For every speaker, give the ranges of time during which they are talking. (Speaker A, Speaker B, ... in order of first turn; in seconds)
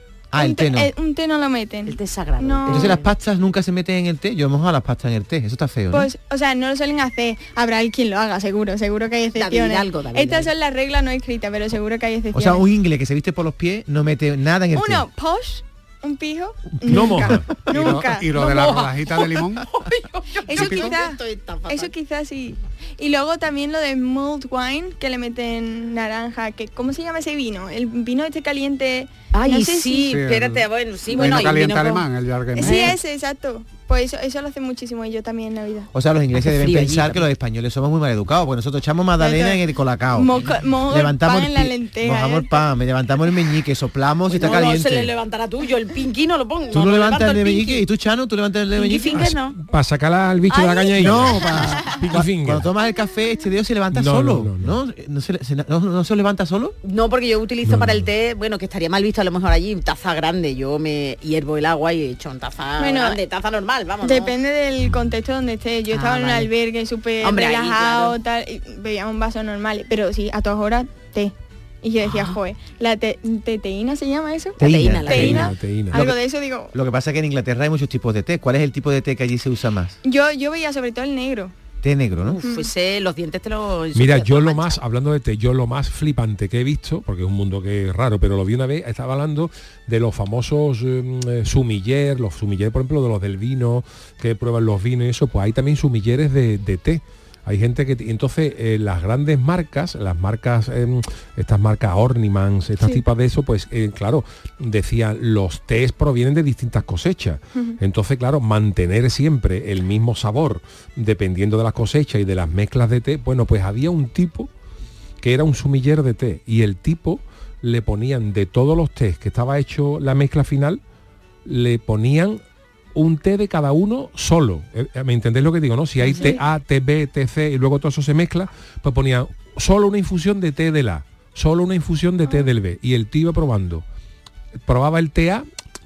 Speaker A: 0.3-0.9, 2.7-6.1, 12.3-15.1, 35.9-45.1, 46.7-49.3, 51.0-56.8, 74.6-75.3, 76.7-80.0, 81.8-82.4
Speaker B: 0.3-3.0, 5.9-12.7, 14.7-18.8, 20.4-30.1, 31.2-31.5, 32.5-35.9, 39.2-42.7, 62.8-63.2, 64.0-76.7, 80.0-81.5, 82.4-82.7, 102.8-103.0, 126.0-126.4, 132.2-132.5
Speaker C: 1.9-3.1, 9.3-10.5, 18.3-21.9, 29.3-32.1, 32.6-33.0, 36.3-37.2, 44.3-47.9, 48.7-49.6, 50.5-51.6, 56.8-64.3, 65.9-66.5, 67.2-68.2, 72.0-72.4, 74.6-75.6, 82.2-84.8
Speaker D: 16.9-17.5, 49.1-52.7, 53.9-54.8, 57.6-58.1, 75.1-76.0, 83.9-114.5, 115.2-120.8, 121.4-122.4, 122.9-133.8, 134.7-135.4
Speaker E: 17.6-19.6, 20.5-20.9, 30.0-33.0